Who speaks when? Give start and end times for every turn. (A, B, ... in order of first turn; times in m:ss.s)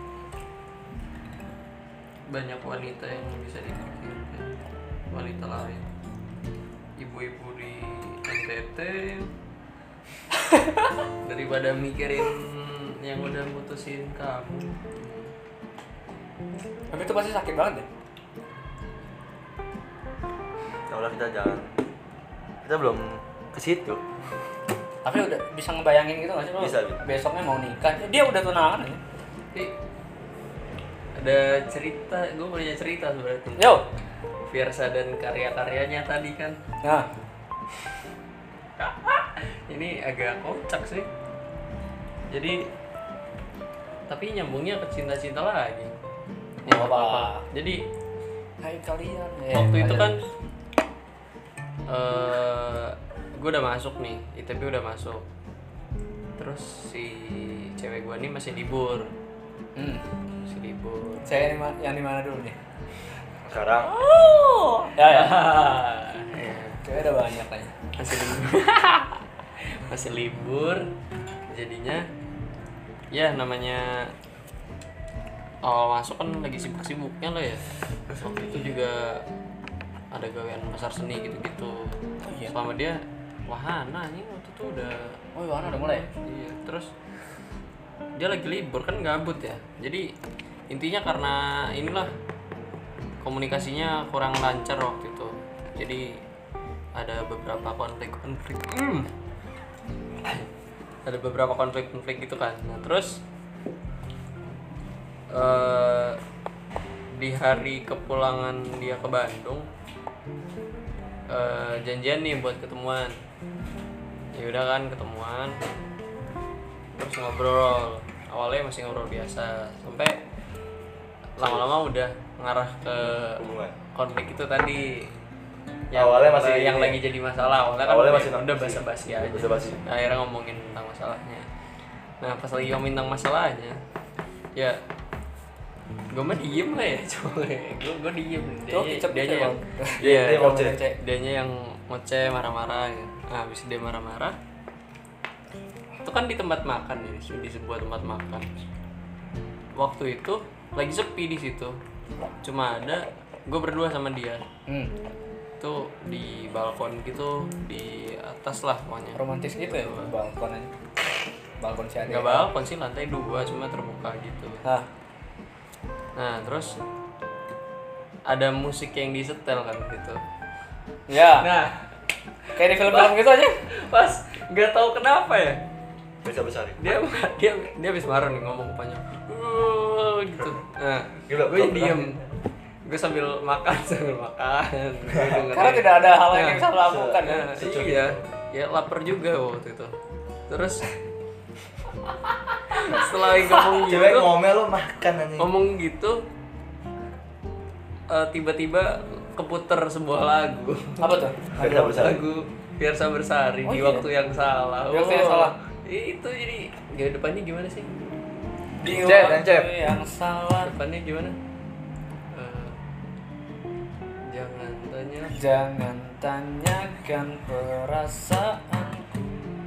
0:02.3-0:04.5 A
0:05.1-0:05.9 A
0:07.0-0:09.3 A
0:11.2-0:15.3 A
0:16.9-0:17.8 B
0:20.9-0:21.8 C
0:22.6-0:24.0 C
0:25.0-0:29.0 B
0:26.6-0:27.0 C
0:31.2-0:33.8 A
0:33.6-0:33.8 B
0:34.4-0:36.6 A
0:38.8-0:41.1 A
0:42.3-0:42.7 A
0:44.1-0:45.9 A
0:46.6-0:47.4 B
0:46.6-0:47.8 A
0:48.6-0:50.2 B
0:49.5-0:50.2 A
0:51.9-0:55.2 A
0:56.4-0:59.1 A
0:59.8-1:00.0 B
1:00.4-1:01.5 A
1:01.2-1:02.6 B
1:03.4-1:04.0 C
1:04.1-1:06.8 A
1:04.2-1:05.5 B
1:06.8-1:07.8 B
1:07.9-1:10.9 A
1:11.5-1:12.0 A
1:13.1-1:14.1 A
1:15.6-1:19.2 A
1:20.1-1:26.9 A
1:22.2-1:22.5 B
1:25.3-1:26.0 B
1:28.2-1:30.1 A
1:30.7-1:32.1 A
1:33.2-1:36.2 A
1:36.9-1:39.1 A
1:41.0-1:43.2 A
1:45.3-1:46.2 A
1:47.1-1:49.7 A
1:51.3-1:53.2 A
1:54.3-1:55.6 A
1:57.0-2:00.2 A
2:01.4-2:05.1 A
2:01.4-2:01.7 C
2:03.0-2:03.7 C
2:05.9-2:11.5 A
2:05.9-2:07.0 C
2:07.8-2:09.8 C
2:12.2-2:13.8 A
2:14.5-2:14.8 A
2:16.1-2:24.4 A
2:18.7-2:21.0 B
2:20.0-2:20.8 C
2:26.0-2:28.5 A
2:29.8-2:31.8 A
2:32.4-2:34.4 A
2:35.6-2:40.1 A
2:39.2-2:40.7 B
2:41.6-2:42.5 B
2:42.1-2:44.6 A
2:46.2-2:46.8 A
2:48.3-2:50.2 A
2:51.1-2:51.5 B
2:51.4-2:51.9 A
2:52.5-2:55.6 A
2:52.6-2:53.6 B
2:56.2-2:57.0 C
2:56.8-3:02.3 A
3:01.3-3:02.2 C
3:02.8-3:09.9 A
3:05.1-3:05.5 C
3:05.5-3:07.7 B
3:06.8-3:08.3 C
3:10.5-3:10.8 A
3:12.7-3:14.4 A
3:13.7-3:15.5 C
3:15.4-3:16.2 A
3:18.1-3:27.9 A
3:21.0-3:21.6 B
3:21.5-3:22.2 C
3:23.6-3:24.1 B
3:24.9-3:25.5 B
3:28.8-3:30.7 B
3:28.8-3:29.7 C
3:30.6-3:31.4 A
3:32.3-3:32.8 A
3:34.3-3:35.4 A
3:35.3-3:39.3 B